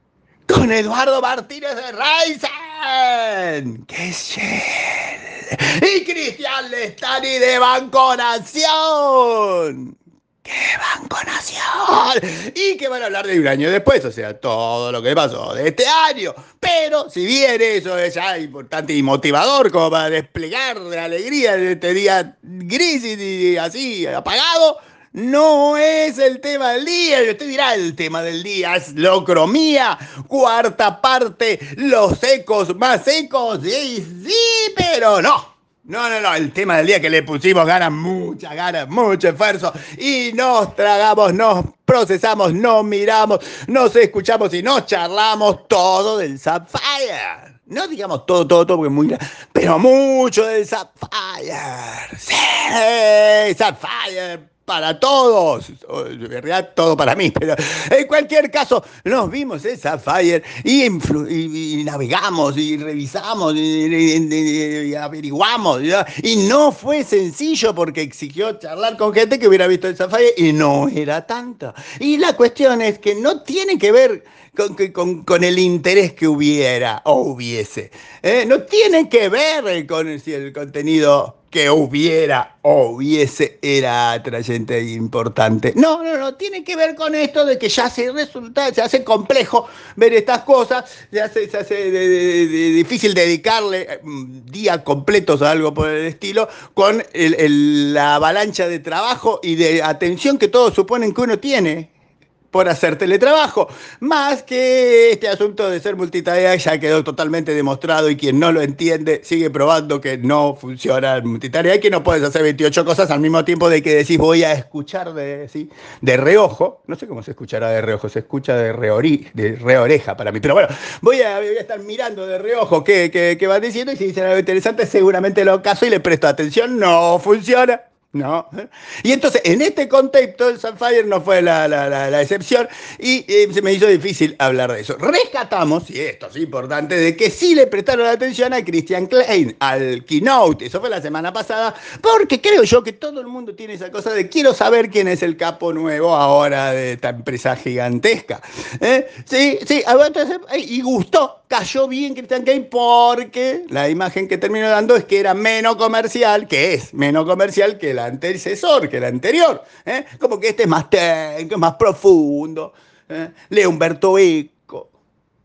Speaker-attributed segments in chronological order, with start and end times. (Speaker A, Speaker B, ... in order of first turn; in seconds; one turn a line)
Speaker A: 0.5-101.9
Speaker A: 102.5-164.9